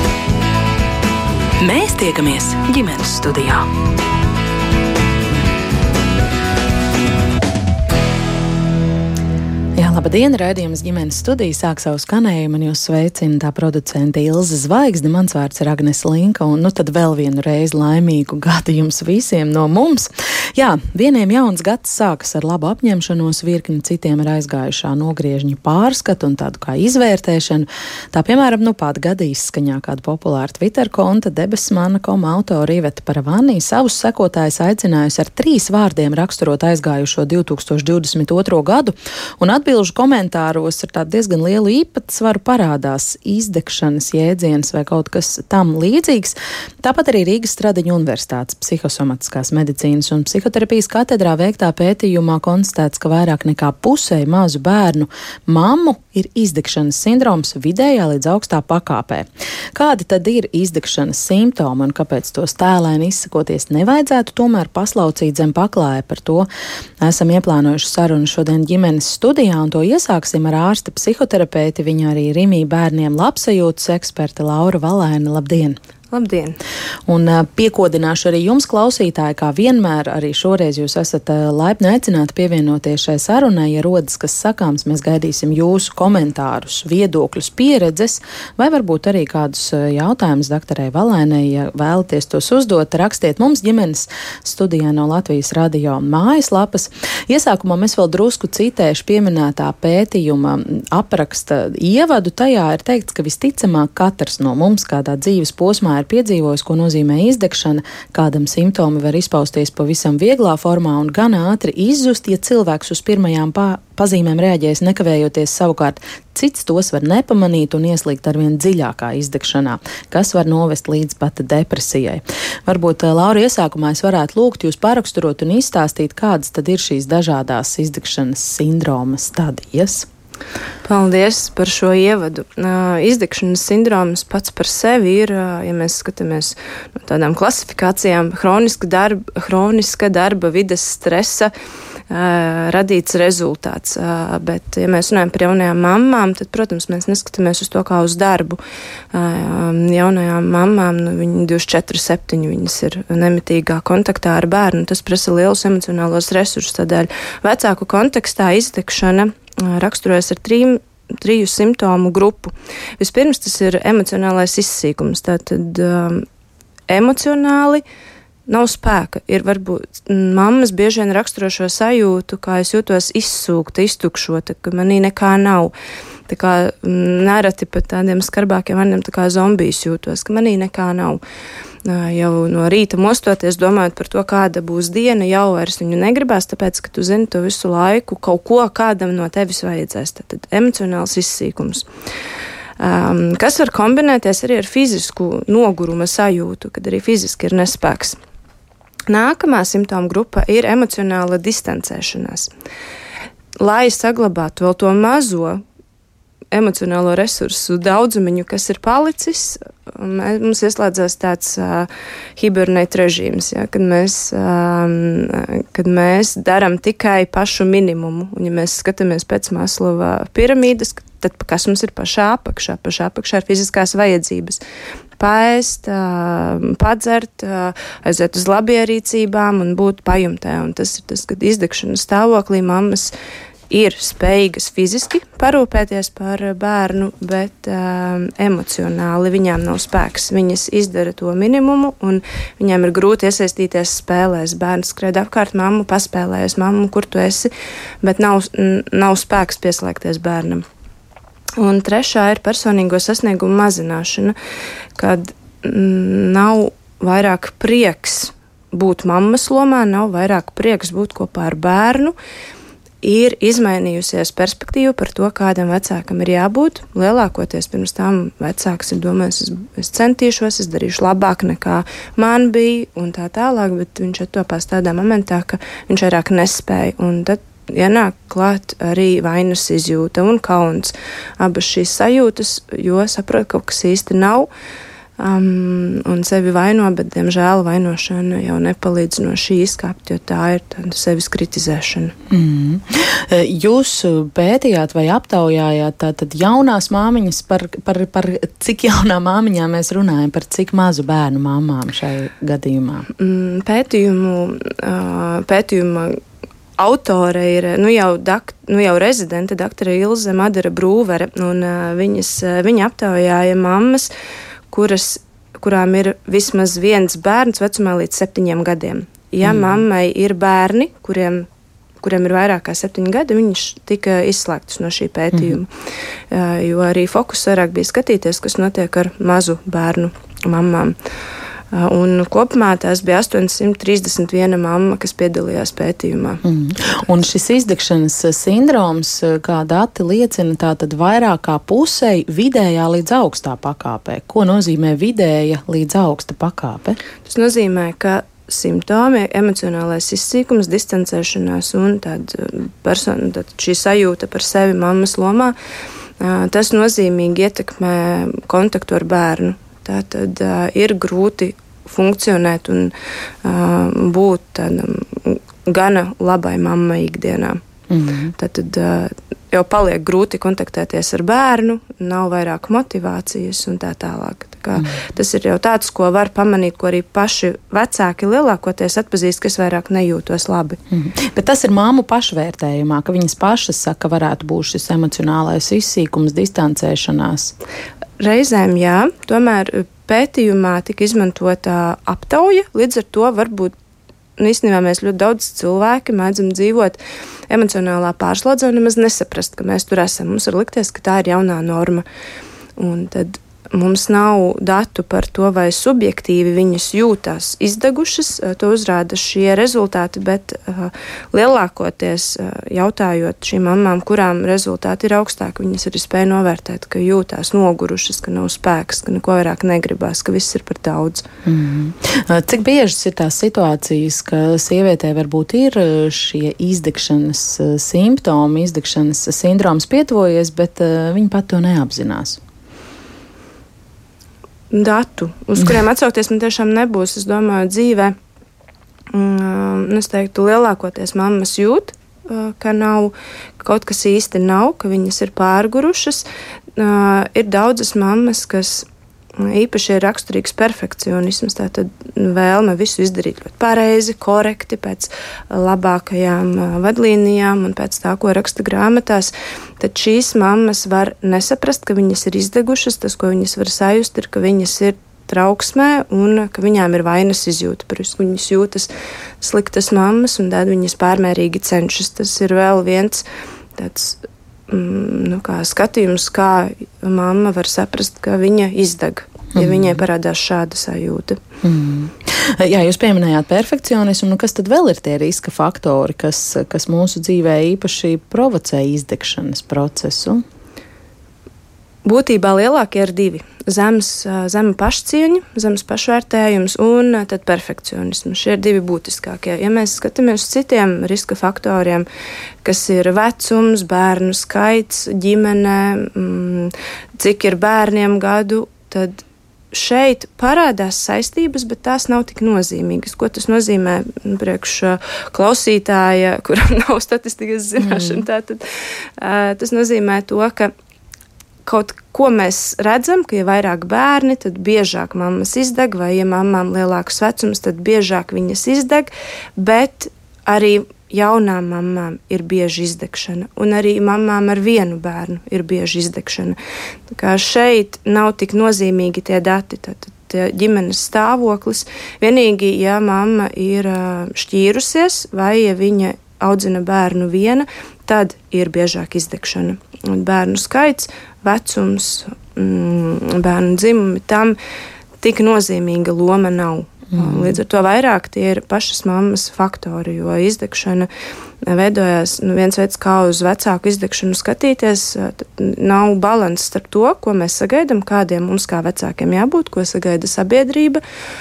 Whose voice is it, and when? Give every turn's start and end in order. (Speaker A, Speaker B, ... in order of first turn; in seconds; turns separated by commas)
Speaker A: 1.6-3.6, Speaker B: 9.8-66.5, Speaker B: 67.0-75.8, Speaker C: 76.1-76.6, Speaker B: 77.1-130.1, Speaker C: 130.8-141.5, Speaker C: 142.1-148.6, Speaker C: 149.1-166.2, Speaker C: 166.9-167.8, Speaker C: 168.5-175.7, Speaker C: 176.3-181.2, Speaker C: 181.8-191.8, Speaker C: 192.8-198.2, Speaker C: 199.1-202.5, Speaker C: 203.6-205.6, Speaker C: 206.5-224.6, Speaker C: 225.2-233.1, Speaker C: 233.7-247.5, Speaker C: 248.0-250.6, Speaker C: 251.6-254.3, Speaker C: 255.0-262.1, Speaker C: 263.0-284.5, Speaker C: 285.2-292.1, Speaker B: 292.3-303.1, Speaker C: 303.2-306.2, Speaker C: 306.8-314.1, Speaker C: 314.7-321.5, Speaker B: 319.4-319.8, Speaker C: 322.0-325.7, Speaker C: 326.3-330.9, Speaker C: 331.7-336.4, Speaker B: 336.4-347.0, Speaker C: 347.2-355.6, Speaker C: 356.2-362.9, Speaker C: 363.4-367.6, Speaker B: 367.9-368.3, Speaker C: 368.4-380.8, Speaker B: 380.9-387.5, Speaker C: 388.2-393.7, Speaker C: 394.4-402.0, Speaker C: 402.8-421.2, Speaker B: 421.4-432.4, Speaker C: 434.7-438.1, Speaker C: 439.1-446.2, Speaker C: 446.8-448.9, Speaker C: 449.4-473.2, Speaker C: 473.8-481.4, Speaker B: 479.6-480.0, Speaker B: 481.6-490.4, Speaker C: 492.1-502.1, Speaker C: 502.6-518.6, Speaker B: 517.8-518.2, Speaker C: 519.2-520.7, Speaker C: 521.7-536.6, Speaker C: 537.1-554.6, Speaker C: 555.2-561.1, Speaker B: 557.2-557.5, Speaker C: 561.6-571.0